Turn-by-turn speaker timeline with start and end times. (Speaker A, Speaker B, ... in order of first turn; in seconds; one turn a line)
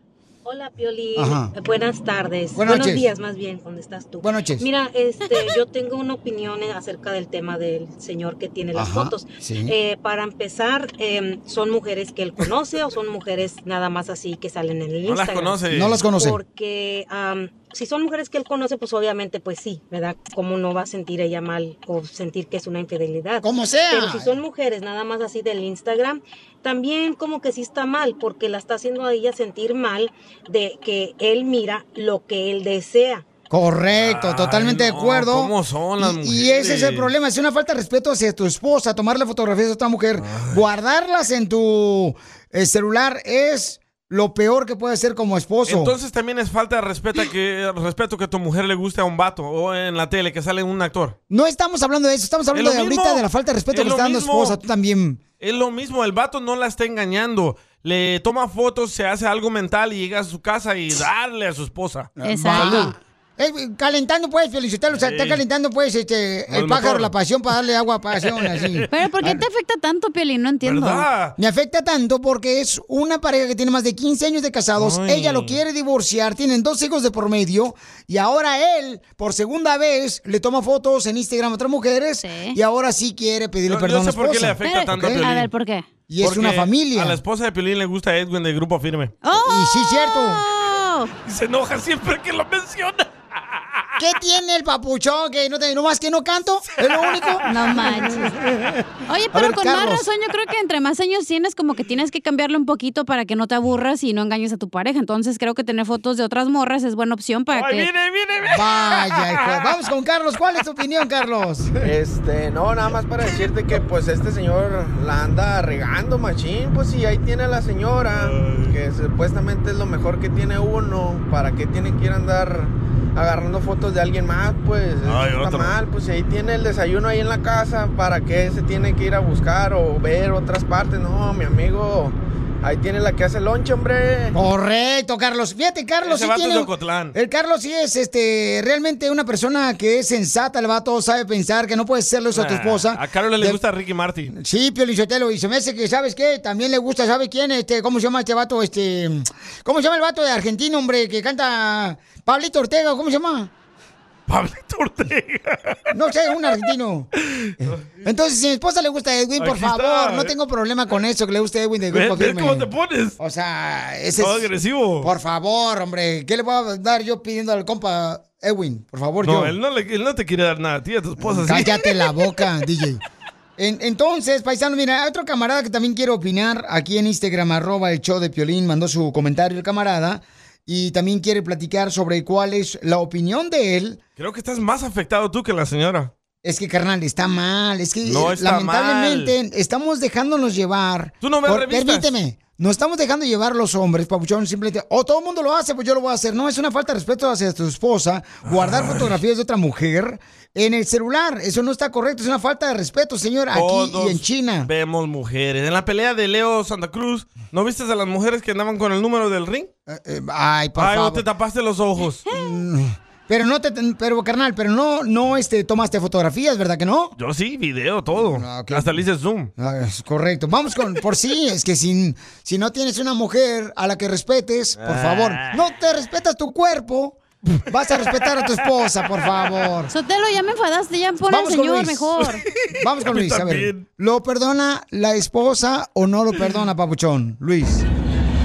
Speaker A: 0.4-15.6
Speaker B: 1.1-1.5
Speaker B: 2.5-3.0
Speaker B: 4.2-4.7
Speaker B: 8.7-9.7
Speaker C: 15.0-16.0
Speaker B: 15.7-16.4
Speaker A: 16.1-33.2
Speaker B: 23.4-24.3
Speaker B: 33.5-45.9
Speaker C: 33.9-37.1
Speaker C: 40.2-40.6
Speaker C: 45.6-51.1
Speaker B: 51.3-55.2
Speaker C: 52.5-54.6
Speaker C: 55.4-62.9
Speaker B: 62.2-69.4
Speaker D: 62.2-62.9
Speaker C: 64.9-65.4
Speaker C: 66.5-67.1
Speaker C: 68.2-68.9
Speaker D: 68.9-71.0
Speaker C: 70.6-71.3
Speaker B: 71.4-85.5
Speaker C: 74.8-75.6
Speaker D: 82.2-82.6
Speaker C: 83.7-85.5
Speaker D: 84.6-85.8
Speaker B: 86.1-87.2
Speaker C: 86.2-89.1
Speaker D: 89.2-91.1
Speaker B: 89.3-90.4
Speaker C: 91.2-93.1
Speaker B: 94.0-97.5
Speaker C: 97.0-97.5
Speaker D: 97.5-98.3
Speaker D: 99.1-107.9
Speaker B: 99.3-100.1
Speaker C: 107.5-109.7
Speaker B: 108.5-111.7
Speaker E: 111.8-134.4
Speaker C: 118.1-118.7
Speaker C: 125.0-125.7
Speaker B: 134.3-143.6
Speaker C: 136.0-137.1
Speaker C: 142.3-144.3
Speaker B: 144.3-153.5
Speaker C: 154.3-155.8
Speaker B: 155.9-157.1
Speaker C: 157.4-157.8
Speaker B: 157.6-164.5
Speaker C: 159.4-160.3
Speaker C: 161.9-163.2
Speaker C: 164.2-165.1
Speaker B: 165.0-169.5
Speaker C: 169.2-171.8
Speaker B: 171.2-173.0
Speaker B: 173.6-184.0
Speaker C: 184.2-186.1
Speaker B: 186.4-204.7
Speaker C: 188.0-189.3
Speaker C: 191.2-192.1
Speaker C: 198.4-199.2
Speaker C: 203.5-209.7
Speaker B: 209.9-211.2
Speaker C: 210.8-212.2
Speaker D: 212.3-212.6
Speaker B: 212.3-217.1
Speaker C: 217.2-219.5
Speaker B: 218.1-218.9
Speaker B: 219.6-229.9
Speaker C: 224.8-225.6
Speaker D: 229.9-232.4
Speaker B: 231.3-232.1
Speaker C: 232.7-233.8
Speaker B: 232.8-237.8